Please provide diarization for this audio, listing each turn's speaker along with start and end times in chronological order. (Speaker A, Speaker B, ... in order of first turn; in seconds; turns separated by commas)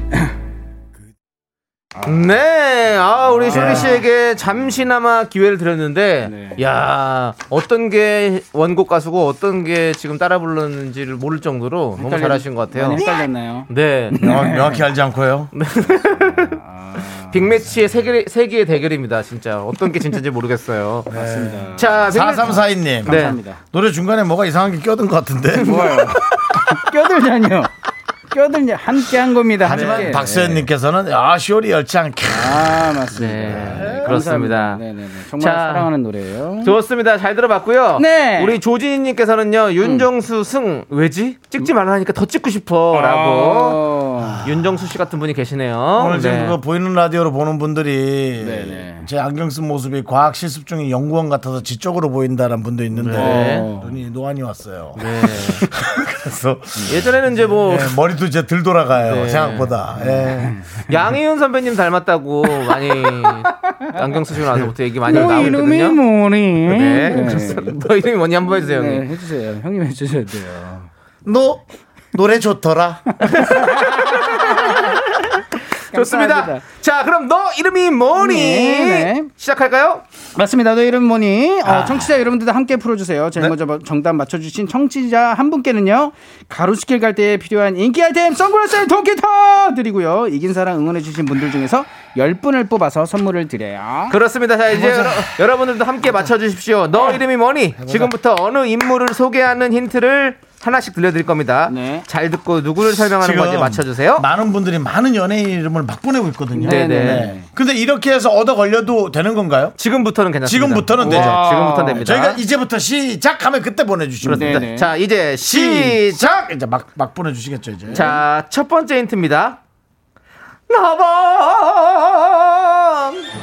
Speaker A: 2.0-2.3, Speaker B: 2.0-13.1, Speaker A: 3.2-4.0, Speaker C: 3.5-4.0, Speaker A: 6.2-6.6, Speaker A: 12.0-14.8, Speaker B: 13.7-14.3, Speaker C: 14.2-15.5, Speaker B: 15.5-21.1, Speaker A: 15.8-17.5, Speaker C: 21.1-26.8, Speaker A: 21.1-23.6, Speaker B: 21.8-23.4, Speaker A: 25.6-27.7, Speaker A: 28.3-30.7, Speaker C: 29.6-32.9, Speaker B: 29.6-30.2, Speaker A: 32.3-36.8, Speaker B: 33.1-34.8, Speaker C: 33.5-34.1, Speaker B: 35.4-35.9, Speaker B: 36.6-43.9, Speaker A: 38.0-38.6, Speaker A: 39.8-40.1, Speaker A: 42.9-44.6, Speaker B: 44.4-46.6, Speaker C: 46.0-60.6, Speaker A: 48.4-49.1, Speaker B: 52.9-53.7, Speaker A: 53.1-54.0, Speaker B: 55.0-55.7, Speaker B: 56.9-58.0, Speaker B: 59.0-59.8, Speaker A: 60.0-60.9, Speaker B: 60.9-66.0, Speaker A: 62.7-64.0, Speaker A: 65.0-67.8, Speaker B: 66.7-69.1, Speaker A: 68.5-70.9, Speaker C: 71.2-73.4, Speaker B: 73.2-80.0, Speaker A: 73.3-75.0, Speaker A: 75.9-76.6, Speaker A: 78.2-79.3, Speaker A: 80.3-94.2, Speaker C: 81.7-82.1, Speaker B: 94.1-104.3, Speaker C: 94.8-95.2, Speaker C: 97.8-98.1, Speaker A: 101.7-102.1, Speaker C: 103.0-109.8, Speaker A: 106.5-107.5, Speaker B: 106.6-107.3, Speaker B: 109.8-112.4, Speaker C: 110.5-114.7, Speaker A: 111.0-112.1, Speaker B: 114.2-116.5, Speaker A: 114.3-114.9, Speaker C: 115.4-118.2, Speaker B: 117.9-119.6, Speaker B: 120.7-123.3